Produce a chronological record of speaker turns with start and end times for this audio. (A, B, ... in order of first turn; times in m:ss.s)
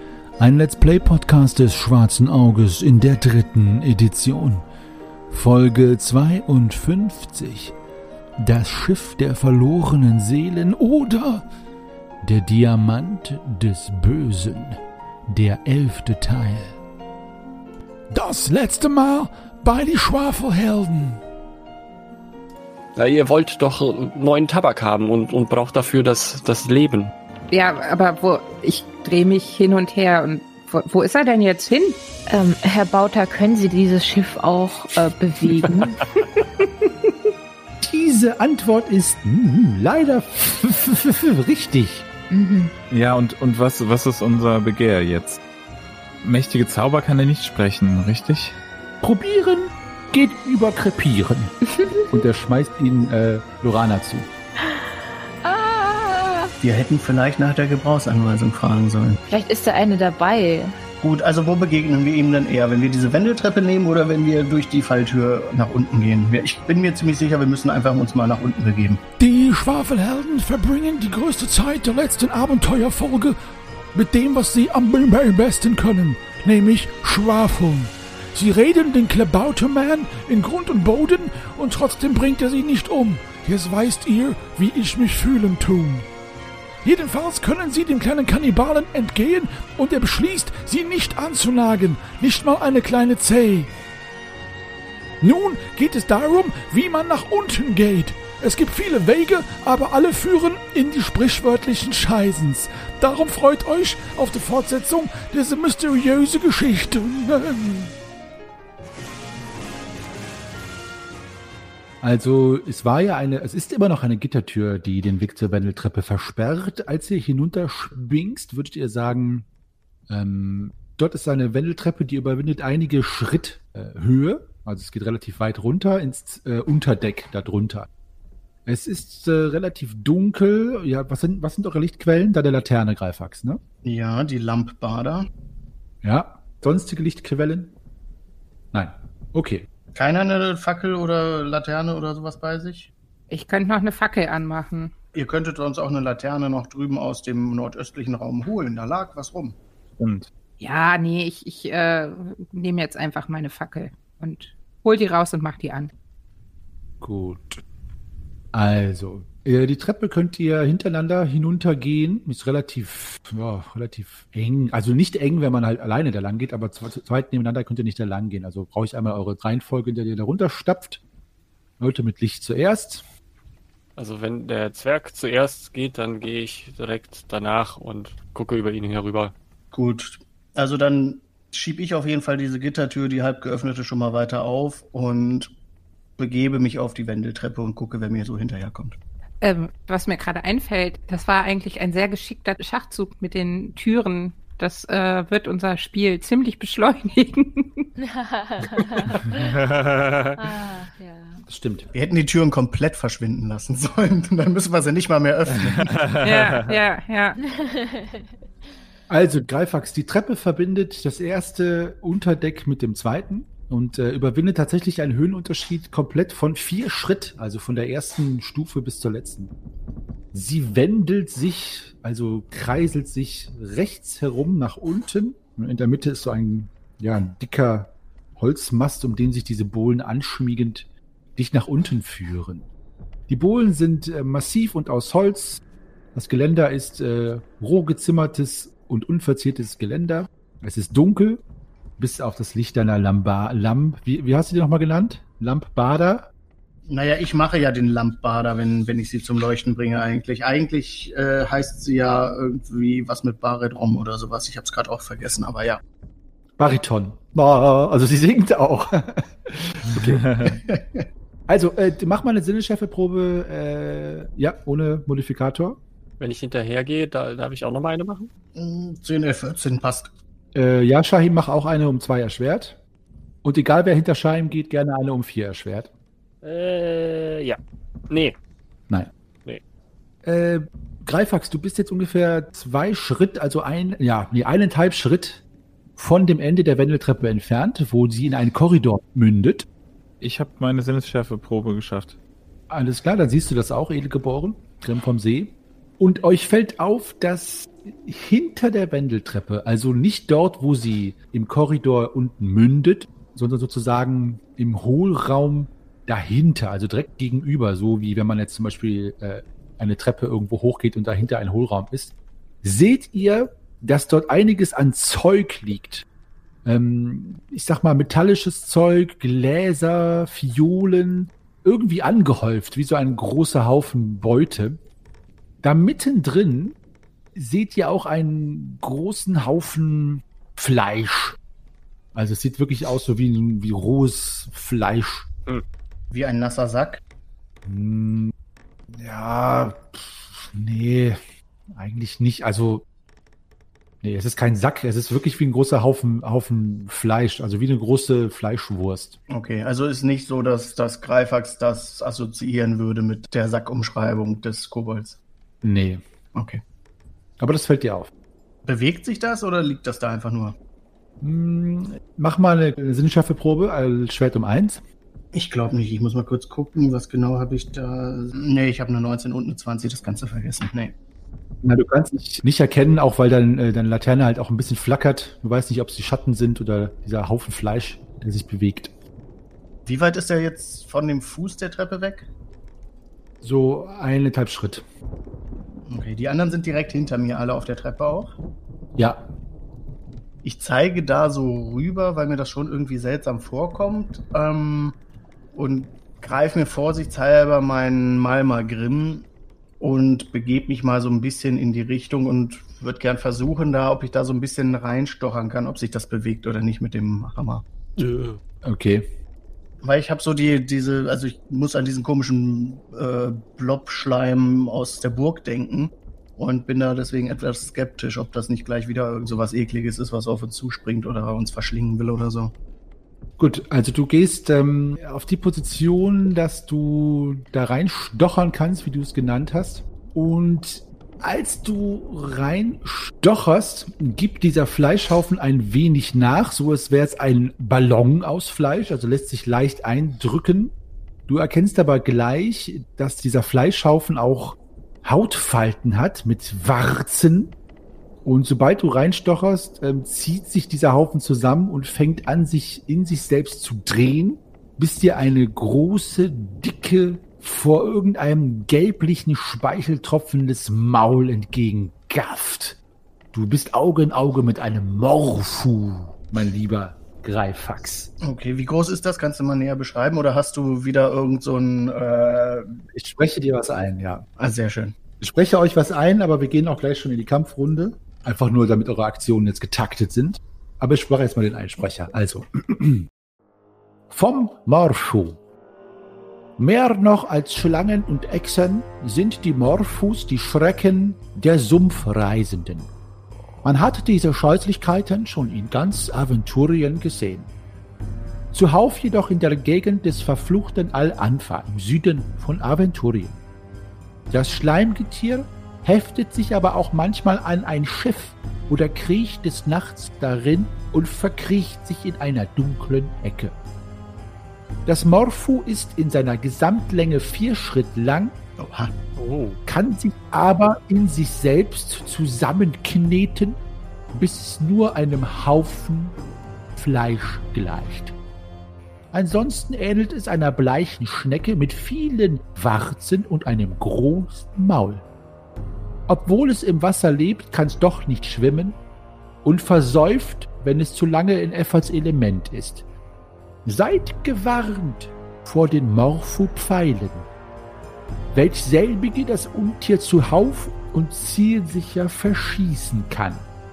0:00.4-0:04.6 A
0:05.3-0:07.7 A
0:08.4-0:11.4 A
0:12.2-0:16.8 A
0:18.1-0:21.2 A
0:22.9-0:27.1 B
0:27.5-0:32.0 C
0:32.3-0:36.0 D
0:36.4-0:37.1 C
0:37.8-0:42.1 A
0:42.3-0:42.7 D
0:42.9-0:45.4 E
0:46.2-0:48.6 E
0:49.0-0:51.5 A
0:51.7-0:52.2 D
0:52.1-0:54.3 A
0:54.6-0:56.5 D
0:56.6-0:59.2 F
0:59.3-1:00.7 D
1:01.0-1:09.0 F
1:09.2-1:13.4 A
1:13.9-1:26.1 A
1:26.8-1:33.7 A
1:35.2-1:47.9 A
1:52.0-1:59.5 A
2:00.1-2:07.9 A
2:08.6-2:13.6 A
2:13.8-2:15.3 F
2:16.0-2:17.7 A
2:18.7-2:19.7 A
2:19.9-2:22.9 F
2:23.3-2:24.9 C
2:25.1-2:29.6 F
2:30.0-2:30.3 E
2:30.6-2:35.9 C
2:37.0-2:37.6 A
2:38.5-2:51.0 A
2:51.8-2:53.0 A
2:54.0-2:59.3 B
2:59.7-3:05.5 F
3:06.2-3:09.0 F
3:09.4-3:17.9 C
3:18.0-3:19.6 D
3:19.3-3:20.3 E
3:20.3-3:21.4 D
3:21.5-3:21.9 A
3:21.9-3:26.0 F
3:25.6-3:26.6 E
3:26.2-3:27.4 C
3:27.4-3:28.3 D
3:29.1-3:39.5 A
3:40.3-3:52.7 A
3:53.3-3:55.6 A
3:56.1-4:01.4 A
4:02.0-4:06.3 A
4:06.9-4:15.8 F
4:16.6-4:20.6 A
4:20.4-4:21.1 F
4:21.5-4:25.8 A
4:26.2-4:28.3 B
4:28.6-4:30.1 F
4:30.5-4:32.8 A
4:33.4-4:35.9 A
4:36.4-4:37.6 B
4:38.1-4:38.4 B
4:40.2-4:45.4 A
4:46.0-4:49.7 A
4:50.2-4:52.2 E
4:52.7-5:16.0 A
5:16.6-5:24.8 A
5:25.6-5:26.8 A
5:27.3-5:31.4 A
5:32.1-5:35.3 A
5:36.1-5:37.0 F
5:37.6-5:38.3 A
5:38.9-5:41.2 A
5:41.7-5:42.8 A
5:44.0-5:49.2 A
5:49.3-5:55.2 F
5:55.6-5:56.0 A
5:56.3-5:56.6 F
5:57.4-5:58.1 A
5:58.6-6:00.5 F
6:01.2-6:04.8 A
6:05.3-6:10.9 F
6:11.6-6:18.9 A
6:19.8-6:22.3 F
6:23.4-6:24.8 A
6:25.9-6:28.4 F
6:29.0-6:29.3 A
6:30.4-6:35.0 F
6:35.5-6:39.3 F
6:39.8-6:47.6 F
6:48.0-6:48.4 B
6:48.6-6:49.1 A
6:49.8-7:02.5 F
7:03.4-7:20.7 A
7:21.3-7:27.6 A
7:28.2-7:42.8 A
7:43.3-7:48.1 A
7:48.2-7:52.8 F
7:52.9-7:54.2 A
7:54.4-7:55.0 F
7:55.2-8:03.1 A
8:04.1-8:05.4 A
8:06.6-8:12.9 A
8:13.6-8:17.5 A
8:18.5-8:23.4 A
8:24.3-8:33.5 A
8:34.8-8:38.4 A
8:38.6-8:38.9 F
8:39.2-8:39.6 B
8:39.6-8:43.6 A
8:44.1-8:46.2 A
8:46.7-8:48.1 A
8:49.1-8:55.0 A
8:56.1-8:58.8 A
8:59.4-9:02.8 A
9:03.6-9:07.3 A
9:08.3-9:13.5 A